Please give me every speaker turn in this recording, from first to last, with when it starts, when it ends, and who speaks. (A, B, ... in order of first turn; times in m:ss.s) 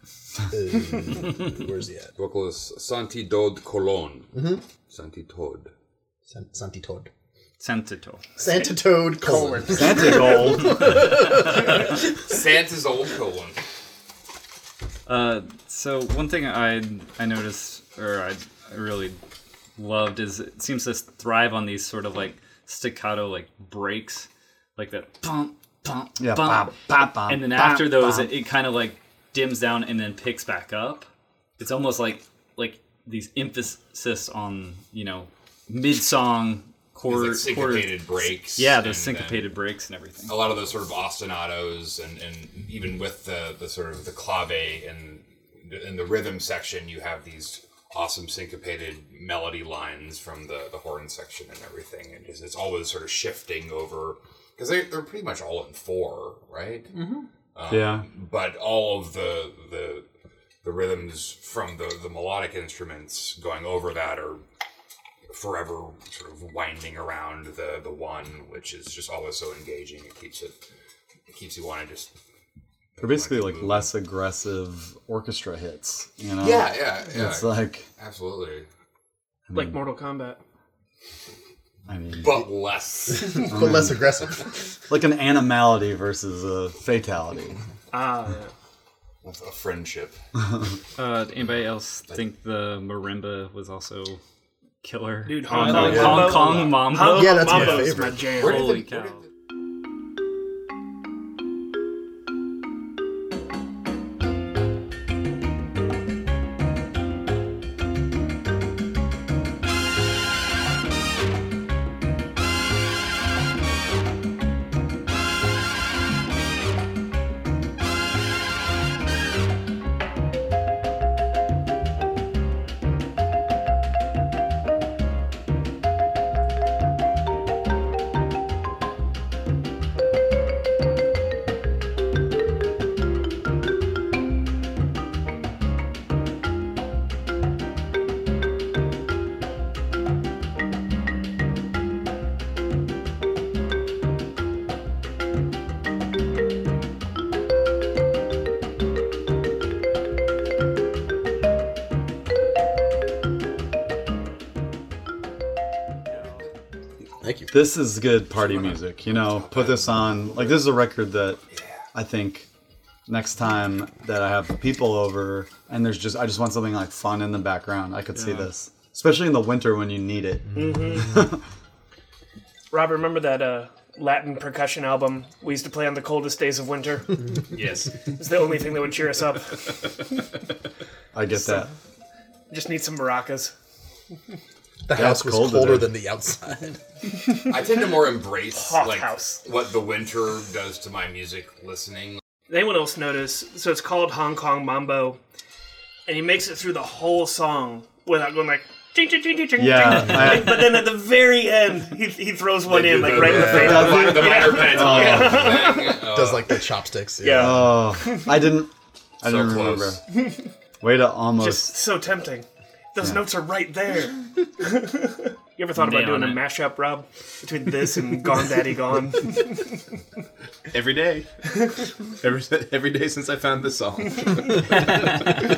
0:00.5-0:02.1 A
0:02.2-0:05.7 B
0:04.3-0:04.6 A
0:06.3-0:07.1 A
0:07.6-0:08.2 C
0:08.4-0:12.0 A
0:08.4-0:10.4 D
0:09.7-0:10.9 E
0:12.0-0:13.6 B
0:15.1-0:19.2 C
0:19.8-0:40.4 C
0:26.2-0:28.3 E
0:37.1-0:39.5 B
0:40.3-0:56.9 B
0:56.9-0:57.3 F
0:57.6-1:00.1 B
0:57.7-0:58.1 E
1:00.6-1:04.4 B
1:05.3-1:10.5 B
1:11.3-1:12.1 B
1:13.0-1:13.9 B
1:13.0-1:17.9 E
1:16.4-1:18.7 B
1:19.5-1:19.8 E
1:19.5-1:20.4 D
1:21.9-1:22.3 E
1:22.1-1:23.4 B
1:23.1-1:24.8 A
1:23.5-1:24.0 E
1:24.9-1:27.6 E
1:27.9-1:28.5 D
1:29.2-1:30.2 B
1:31.0-1:34.2 C
1:34.8-1:39.2 C
1:35.3-1:38.8 D
1:35.6-1:36.0 F
1:35.7-1:38.3 A
1:38.4-1:39.1 B
2:37.2-2:37.6 A
2:37.5-2:41.4 E
2:38.3-2:40.6 B
2:41.5-2:41.8 B
2:41.9-2:42.5 E
2:43.1-2:50.5 E
2:48.2-2:48.5 C
2:50.5-2:51.2 D
2:51.1-2:51.4 E
2:52.7-2:57.6 D
2:57.5-2:57.9 B
2:58.1-3:00.1 D
3:01.1-3:01.7 E
3:01.3-3:01.7 D
3:02.5-3:03.5 D
3:04.9-3:06.8 A
3:04.9-3:05.9 E
3:07.5-3:12.2 B
3:08.5-3:09.4 D
3:12.5-3:15.2 D
3:16.1-3:26.1 D
3:19.6-3:20.7 E
3:22.6-3:26.5 B
3:23.2-3:23.9 A
3:23.3-3:25.5 E
3:26.0-3:27.8 A
3:27.2-3:28.4 D
3:27.3-3:30.0 E
3:29.2-3:30.0 B
3:30.8-3:31.8 E
3:31.4-3:39.8 D
3:35.8-3:36.4 C
3:40.7-3:45.2 F